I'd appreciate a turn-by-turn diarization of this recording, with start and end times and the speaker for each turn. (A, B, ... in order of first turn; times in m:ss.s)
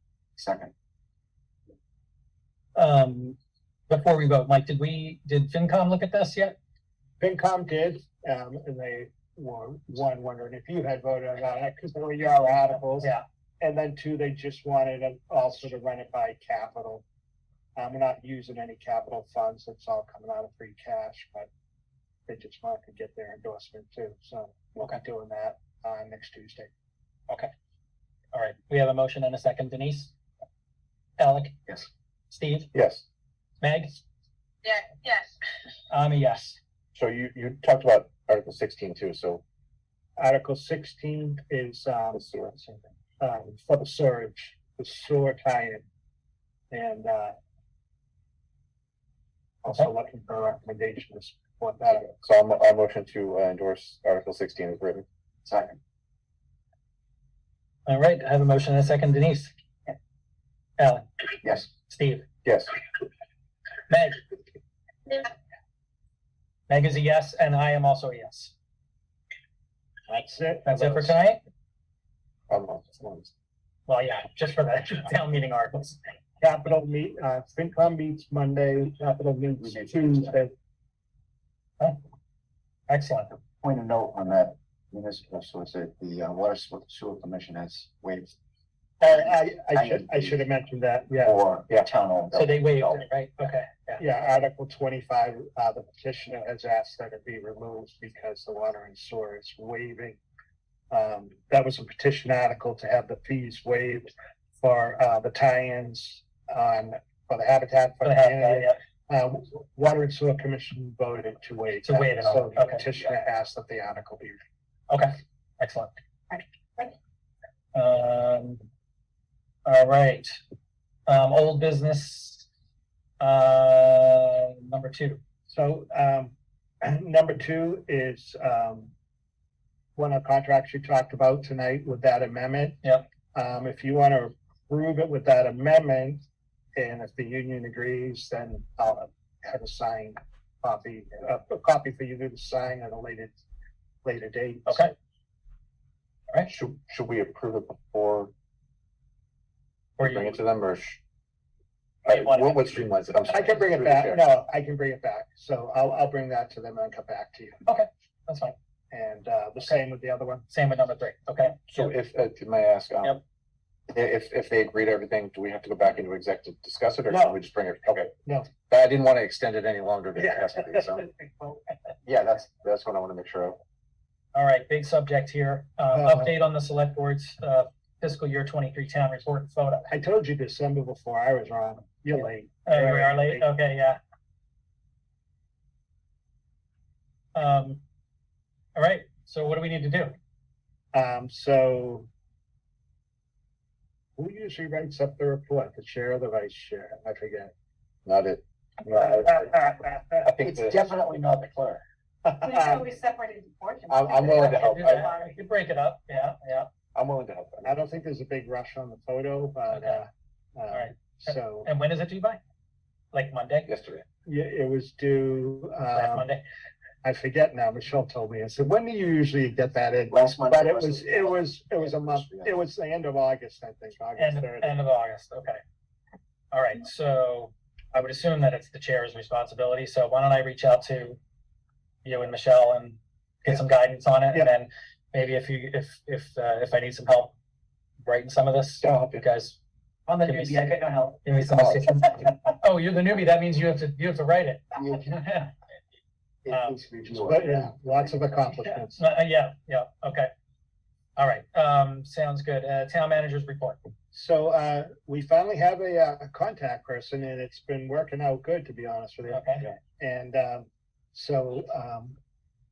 0:00.4-0:00.7 A
0:02.8-0:03.4 B
0:03.9-0:06.6 B
0:07.2-0:17.0 C
0:17.8-0:21.5 C
0:22.3-0:26.7 C
0:28.3-0:30.1 B
0:31.2-0:32.7 B
0:32.7-0:33.0 D
0:33.6-0:34.0 B
0:34.7-0:35.2 E
0:35.9-0:36.6 B
0:37.0-0:39.4 D
0:40.2-0:45.8 C
0:42.2-0:42.5 D
0:46.7-0:47.4 C
0:49.6-0:52.1 C
0:52.1-0:55.0 D
0:55.4-0:55.8 A
0:57.9-0:59.5 B
1:00.8-1:01.0 B
1:01.7-1:02.2 B
1:02.4-1:02.7 D
1:03.9-1:04.2 B
1:06.7-1:08.5 B
1:10.1-1:11.2 C
1:10.7-1:11.4 B
1:12.5-1:13.3 D
1:13.9-1:16.0 B
1:16.4-1:20.5 C
1:19.6-1:20.3 A
1:22.9-1:23.4 B
1:23.6-1:28.3 A
1:29.0-1:31.4 C
1:29.7-1:30.4 A
1:31.2-1:33.0 A
1:31.7-1:32.0 D
1:32.3-1:34.0 B
1:34.0-1:40.2 C
1:40.9-1:44.1 C
1:44.6-1:54.4 C
1:48.0-1:48.8 B
1:51.8-1:52.8 B
1:54.9-1:56.0 B
1:57.8-1:58.6 B
1:59.7-2:00.4 B
2:01.1-2:02.5 B
2:03.2-2:05.2 B
2:05.5-2:08.9 C
2:10.0-2:12.8 C
2:13.3-2:16.2 C
2:16.8-2:23.4 C
2:24.0-2:24.9 C
2:24.7-2:24.9 B
2:26.5-2:28.3 D
2:30.0-2:30.4 B
2:30.0-2:31.0 D
2:32.1-2:32.8 B
2:32.1-2:34.2 D
2:33.3-2:37.6 C
2:37.6-2:38.6 B
2:38.9-2:40.4 C
2:40.5-2:41.9 B
2:41.7-2:43.2 D
2:43.9-2:48.1 D
2:47.1-2:47.4 C
2:48.7-2:51.1 D
2:50.2-2:51.6 C
2:52.0-2:53.6 D
2:54.3-2:59.9 B
2:55.9-2:56.4 C
2:59.9-3:03.5 C
3:02.7-3:04.0 B
3:07.4-3:07.8 B
3:08.8-3:10.2 B
3:10.9-3:12.1 C
3:14.2-3:17.5 C
3:18.1-3:19.5 D
3:18.9-3:20.3 C
3:20.2-3:20.8 D
3:20.4-3:21.8 A
3:22.2-3:22.9 C
3:22.4-3:25.3 E
3:23.9-3:25.1 D
3:24.3-3:26.7 B
3:27.0-3:27.8 D
3:27.6-3:31.7 C
3:29.7-3:30.0 B
3:30.7-3:32.4 B
3:33.1-3:33.7 B
3:33.7-3:34.0 D
3:34.3-3:36.3 C
3:35.9-3:36.4 B
3:37.0-3:44.8 C
3:40.1-3:42.6 A
3:44.2-3:45.6 B
3:46.5-3:51.2 B
3:52.0-3:57.3 B
3:58.0-3:59.6 B
3:58.8-3:59.2 D
4:00.1-4:01.2 E
4:00.2-4:05.5 B
4:01.5-4:01.8 D
4:04.8-4:05.1 A
4:06.4-4:08.2 A
4:06.5-4:06.8 B
4:07.1-4:09.0 C
4:08.6-4:10.3 B
4:11.2-4:13.8 B
4:14.1-4:22.2 C
4:19.3-4:19.7 B